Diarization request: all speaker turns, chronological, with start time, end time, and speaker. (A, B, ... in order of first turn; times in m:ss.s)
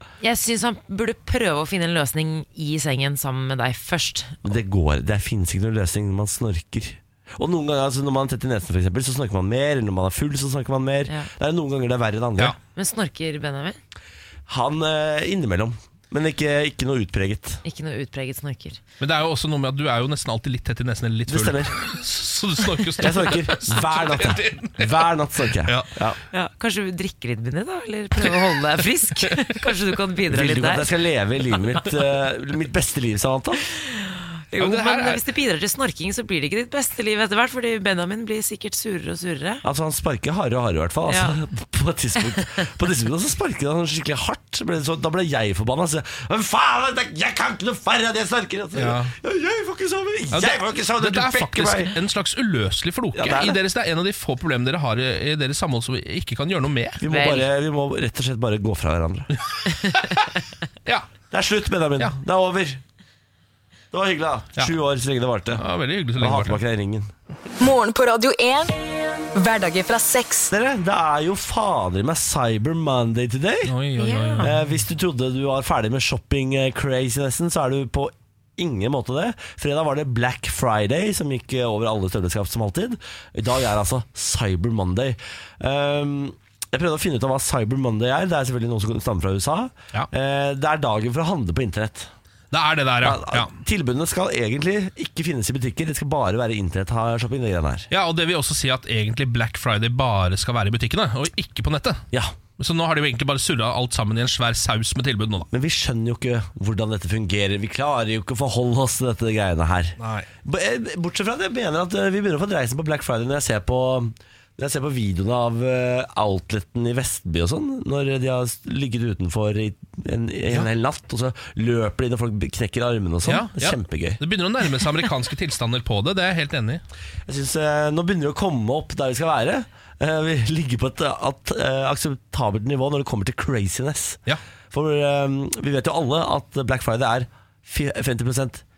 0:00.2-0:04.5 A
0:04.4-0:12.6 B
0:12.7-0:13.8 A
0:14.5-0:17.6 B
0:17.6-0:18.8 A
0:19.0-0:24.9 C
0:21.3-0:21.8 B
0:23.0-0:26.2 B
0:26.3-0:30.9 A
0:30.3-0:33.6 B
0:33.7-0:39.6 A
0:34.6-0:35.2 C
0:39.6-0:51.9 B
0:41.1-0:41.4 A
0:48.8-0:49.1 C
0:50.3-0:57.0 C
0:53.2-0:53.6 B
0:57.0-0:59.3 B
0:57.1-0:57.5 A
0:59.9-1:00.2 C
1:01.3-1:02.8 B
1:03.9-1:05.6 B
1:05.6-1:06.6 C
1:06.2-1:07.1 B
1:07.6-1:08.7 D
1:09.4-1:10.5 D
1:10.5-1:13.7 B
1:13.6-1:14.7 C
1:14.0-1:14.5 A
1:14.4-1:32.1 B
1:32.5-1:33.5 C
1:33.0-1:37.9 B
1:37.9-1:42.0 C
1:42.6-1:45.5 C
1:45.5-2:04.2 B
1:50.0-1:50.3 C
2:03.2-2:06.8 C
2:07.3-2:18.6 B